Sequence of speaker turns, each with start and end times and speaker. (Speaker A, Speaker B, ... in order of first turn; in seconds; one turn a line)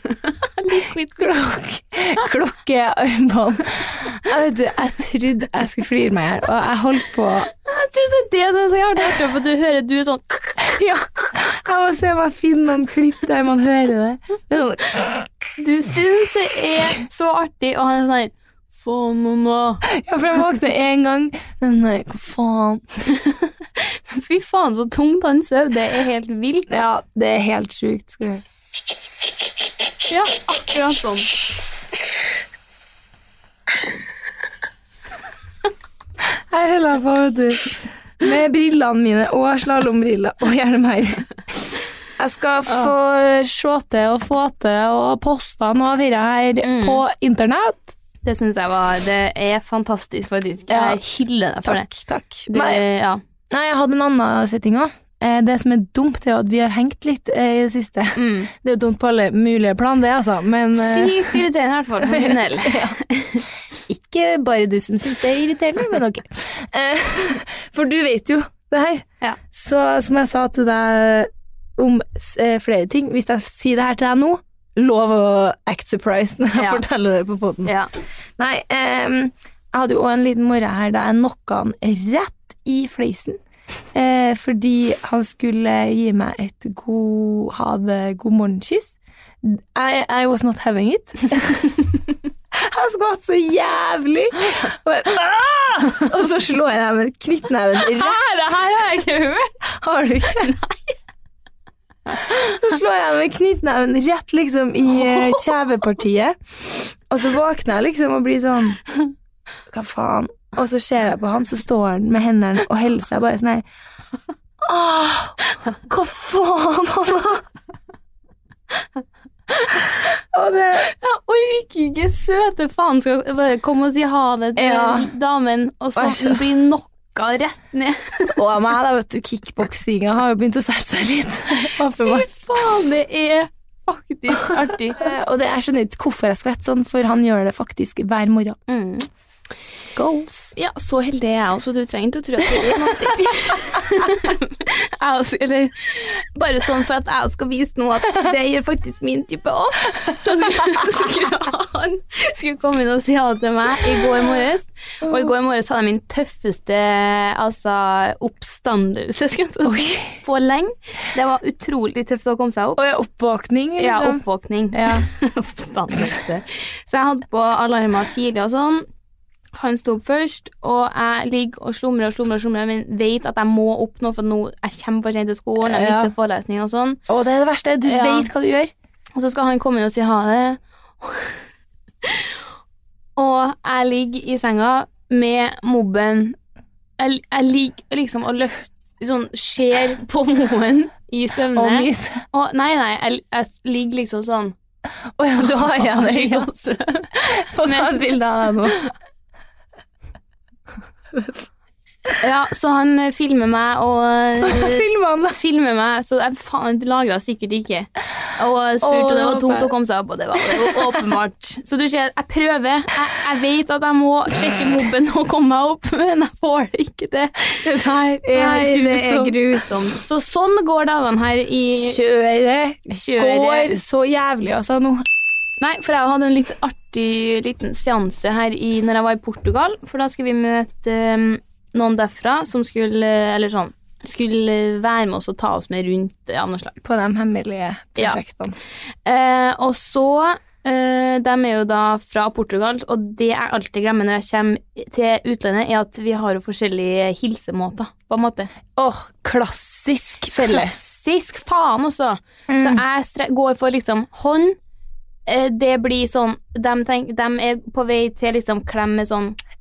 Speaker A: 0.4-1.3
Speaker B: 1.2-7.5
Speaker A: 7.6-11.3
Speaker B: 11.3-15.3
Speaker A: 15.6-19.8
Speaker B: 19.8-22.8
Speaker A: 23.1-26.7
Speaker B: 26.7-28.4
Speaker A: 30.1-31.3
Speaker B: 36.5-41.3
Speaker B: 42.2-47.9
Speaker A: 42.7-42.9
Speaker A: 46.6-47.0
Speaker A: 48.2-51.9
Speaker B: 50.7-51.0
Speaker B: 51.6-52.8
Speaker A: 52.5-53.2
Speaker B: 53.5-61.4
Speaker A: 58.1-58.5
Speaker A: 60.8-63.4
Speaker B: 62.0-62.9
Speaker B: 63.9-77.7
Speaker A: 76.6-76.8
Speaker A: 77.6-77.9
Speaker B: 78.4-83.4
Speaker B: 83.9-91.8
Speaker B: 92.5-98.2
Speaker A: 97.8-99.5
Speaker B: 99.7-100.5
Speaker A: 100.2-100.9
Speaker B: 102.2-108.8
Speaker A: 105.1-105.4
Speaker B: 109.7-113.6
Speaker B: 114.6-117.4
Speaker A: 119.5-119.8
Speaker B: 120.3-120.9
Speaker A: 120.8-128.3
Speaker B: 124.5-125.1
Speaker B: 126.0-126.4
Speaker B: 128.3-132.3
Speaker A: 131.8-135.0
Speaker B: 135.0-138.6
Speaker A: 138.7-139.1
Speaker B: 139.9-140.5
Speaker A: 140.5-162.8
Speaker B: 142.6-143.1
Speaker B: 155.0-155.3
Speaker B: 159.6-160.1
Speaker B: 162.8-165.1
Speaker A: 163.8-168.8
Speaker A: 169.6-177.0
Speaker B: 175.6-176.1
Speaker B: 177.1-178.7
Speaker A: 177.8-178.3
Speaker A: 179.2-181.3
Speaker A: 182.0-182.3
Speaker A: 183.2-186.3
Speaker A: 187.0-194.5
Speaker B: 191.5-192.2
Speaker B: 195.2-196.5
Speaker A: 195.4-198.9
Speaker B: 197.1-198.8
Speaker A: 202.2-217.7
Speaker B: 204.4-205.3
Speaker B: 208.8-209.7
Speaker B: 210.3-210.8
Speaker B: 217.6-219.3
Speaker A: 218.3-222.0
Speaker B: 221.8-225.0
Speaker A: 222.9-223.7
Speaker A: 225.6-236.8
Speaker B: 236.8-238.6
Speaker A: 239.0-248.5
Speaker B: 248.8-250.7
Speaker A: 250.4-254.6
Speaker B: 252.5-252.8
Speaker A: 255.2-259.4